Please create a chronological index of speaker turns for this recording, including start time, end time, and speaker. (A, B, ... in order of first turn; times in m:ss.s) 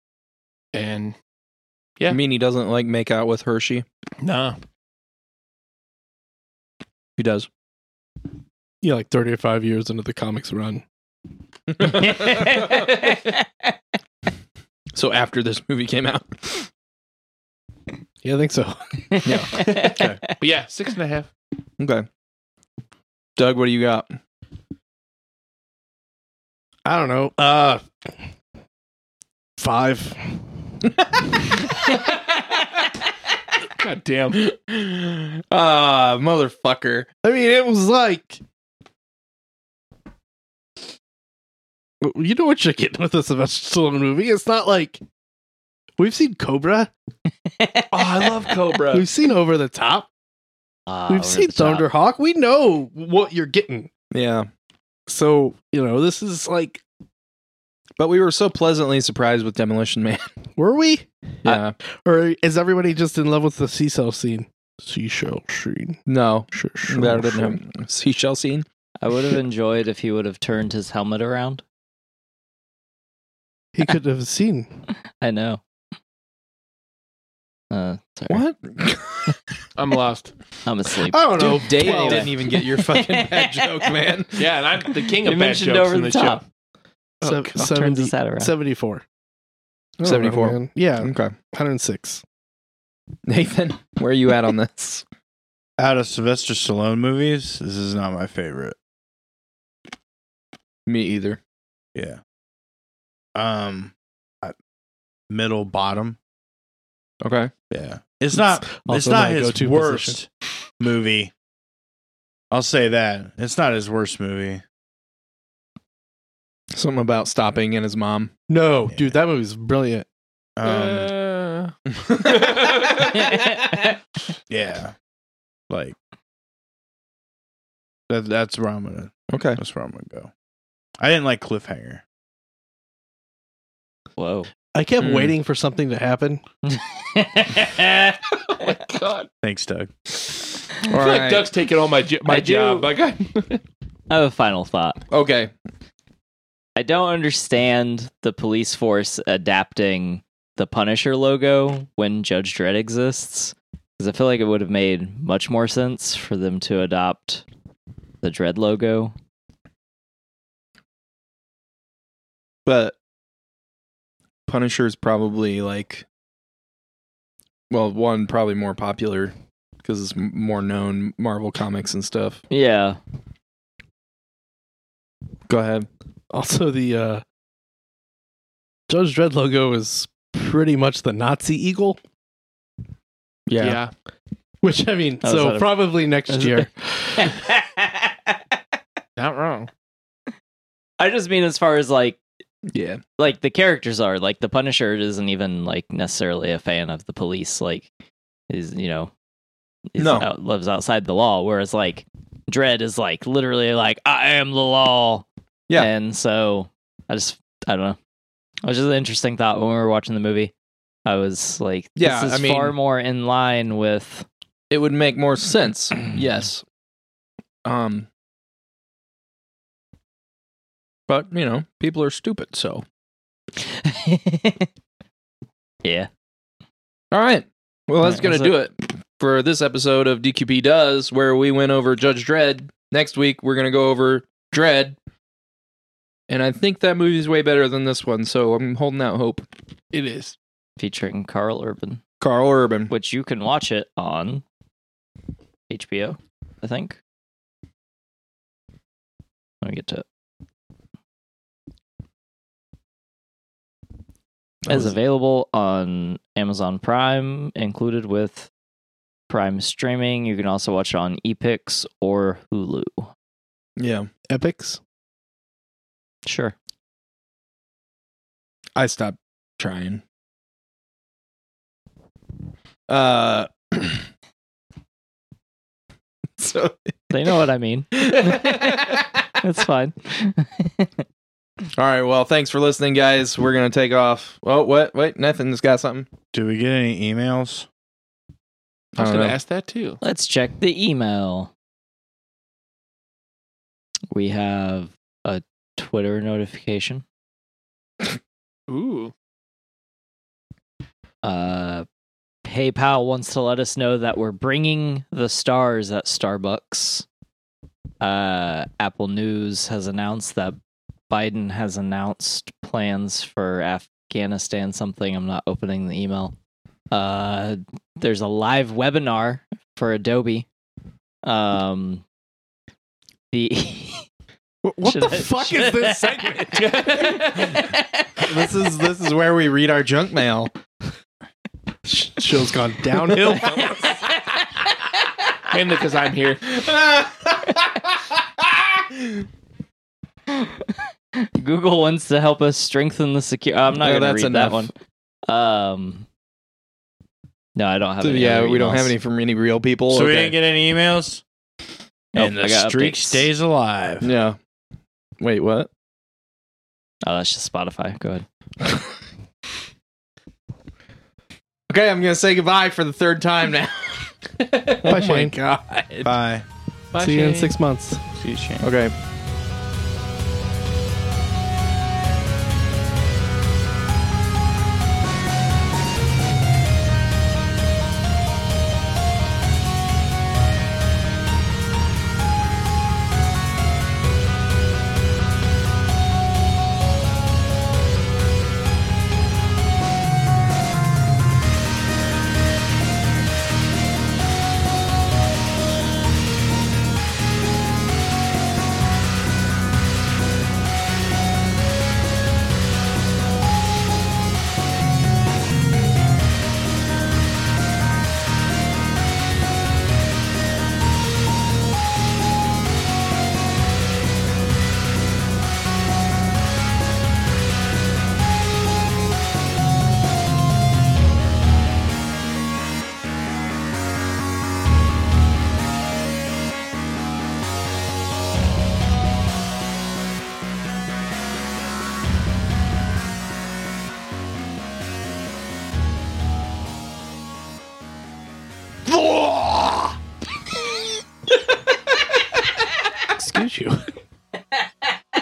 0:00.7-0:01.2 A
0:02.1-0:03.9 B
0:04.2-0:04.6 A
0:07.2-0:07.5 B
0:08.8-0:10.8 C
0:11.8-0:12.5 B
0:11.9-0:13.5 D
0:14.9-0:16.7 B
0:18.2-0:19.5 C
0:19.2-0:19.6 B
0:19.5-0:20.3 D
0:19.8-0:21.3 A
0:19.9-0:20.2 E
0:21.8-0:22.1 B
0:23.4-0:24.2 B
0:26.9-0:27.9 C
0:29.6-0:30.4 C
0:33.6-0:34.5 A
0:34.4-0:37.1 B
0:37.2-0:38.4 C
0:42.0-0:45.0 C
0:46.0-0:46.9 C
0:47.5-0:48.2 D
0:47.9-0:49.1 A
0:48.9-0:50.1 C
0:50.9-0:51.9 D
0:51.1-0:53.9 C
0:54.1-0:54.5 B
0:55.1-0:56.8 C
0:58.0-1:00.3 B
1:00.6-1:01.1 C
1:01.4-1:01.8 B
1:02.0-1:06.0 C
1:06.1-1:08.6 B
1:06.5-1:07.6 C
1:09.0-1:11.6 D
1:13.8-1:14.7 C
1:15.2-1:15.6 D
1:17.7-1:18.4 D
1:18.3-1:19.4 B
1:19.8-1:20.3 A
1:20.6-1:23.9 D
1:21.1-1:22.3 C
1:21.4-1:24.5 B
1:24.4-1:26.4 A
1:24.9-1:26.4 D
1:27.2-1:27.5 A
1:27.2-1:29.0 C
1:27.4-1:28.5 D
1:30.0-1:31.3 B
1:30.0-1:32.2 C
1:33.3-1:35.0 B
1:35.8-1:38.8 E
1:40.9-1:41.4 B
1:43.4-1:44.5 E
1:45.3-1:46.2 E
1:47.2-1:47.5 B
1:47.7-1:50.3 E
1:48.6-1:50.2 C
1:50.8-1:51.3 E
1:52.5-1:54.6 E
1:56.7-1:58.3 B
1:58.5-2:00.1 C
2:00.6-2:01.1 E
2:00.6-2:03.3 A
2:01.9-2:02.5 B
2:03.1-2:03.8 D
2:04.5-2:04.9 E
2:05.7-2:06.0 E
2:08.1-2:10.3 E
2:09.3-2:09.6 B
2:11.0-2:12.0 E
2:14.2-2:14.5 D
2:14.7-2:16.4 C
2:15.0-2:15.4 B
2:16.6-2:18.6 D
2:18.5-2:19.3 A
2:19.4-2:19.9 E
2:20.9-2:21.5 B
2:20.9-2:23.6 A
2:22.3-2:22.9 D
2:24.1-2:25.0 D
2:25.1-2:25.5 B
2:26.8-2:37.4 D
2:38.2-2:39.1 D
2:42.6-2:43.0 B
2:44.5-2:46.0 B
2:47.7-2:52.4 B
2:52.5-2:53.0 D
2:55.5-2:55.9 B
2:56.3-2:57.2 C
2:58.9-3:02.0 C
3:03.5-3:03.8 B
3:03.6-3:03.9 A
3:04.6-3:06.7 C
3:05.2-3:08.4 D
3:09.2-3:09.7 A
3:11.0-3:12.2 D
3:12.7-3:13.0 B
3:13.2-3:17.9 D
3:18.5-3:19.1 D
3:19.9-3:28.0 D
3:20.0-3:20.3 B
3:28.6-3:30.5 D
3:31.1-3:34.3 D
3:32.0-3:32.8 B
3:34.7-3:36.6 B
3:37.6-3:38.1 B
3:41.1-3:42.8 B
3:43.6-3:44.7 D
3:45.8-3:46.1 D
3:47.1-3:55.0 B
3:48.0-3:48.5 D
3:56.3-3:59.5 B
3:59.9-4:00.4 A
4:00.8-4:02.0 D
4:02.2-4:02.9 B
4:02.9-4:04.4 D
4:05.7-4:07.0 D
4:09.6-4:10.0 D
4:14.6-4:15.0 B
4:14.7-4:18.5 D
4:19.3-4:23.1 D
4:23.8-4:24.1 B
4:24.3-4:24.8 C
4:26.3-4:26.6 D
4:28.8-4:30.0 B
4:32.9-4:34.0 B
4:36.4-4:36.8 B
4:37.1-4:41.0 D
4:38.0-4:39.0 B
4:41.8-4:46.1 B
4:46.3-4:47.7 E
4:49.0-4:49.4 B
4:49.0-4:50.0 A
4:50.0-4:51.5 D
4:54.1-4:57.0 D
4:58.7-4:59.1 A
5:01.2-5:01.9 D
5:02.4-5:07.1 D
5:08.0-5:10.6 D
5:11.1-5:16.4 D
5:16.9-5:20.5 D
5:21.2-5:22.0 D
5:23.3-5:24.1 D
5:24.6-5:27.1 C
5:24.8-5:28.1 D
5:26.5-5:27.6 A
5:28.2-5:30.5 B
5:31.9-5:33.9 C
5:35.4-5:36.4 A
5:36.5-5:39.2 B
5:40.3-5:44.7 D
5:43.8-5:44.7 B
5:45.3-5:46.1 D
5:47.6-5:48.9 D
5:48.0-5:50.4 B
5:49.9-5:51.2 E
5:52.1-5:53.3 D
5:52.2-5:54.1 E
5:54.0-5:54.4 B
5:55.2-5:55.7 B
5:57.0-5:58.2 D
6:01.7-6:04.1 B
6:04.8-6:05.3 B
6:04.9-6:05.7 C
6:06.0-6:06.4 B
6:06.9-6:07.6 A
6:07.0-6:08.0 C
6:08.2-6:08.6 E
6:08.6-6:08.9 B
7:23.1-7:23.9 C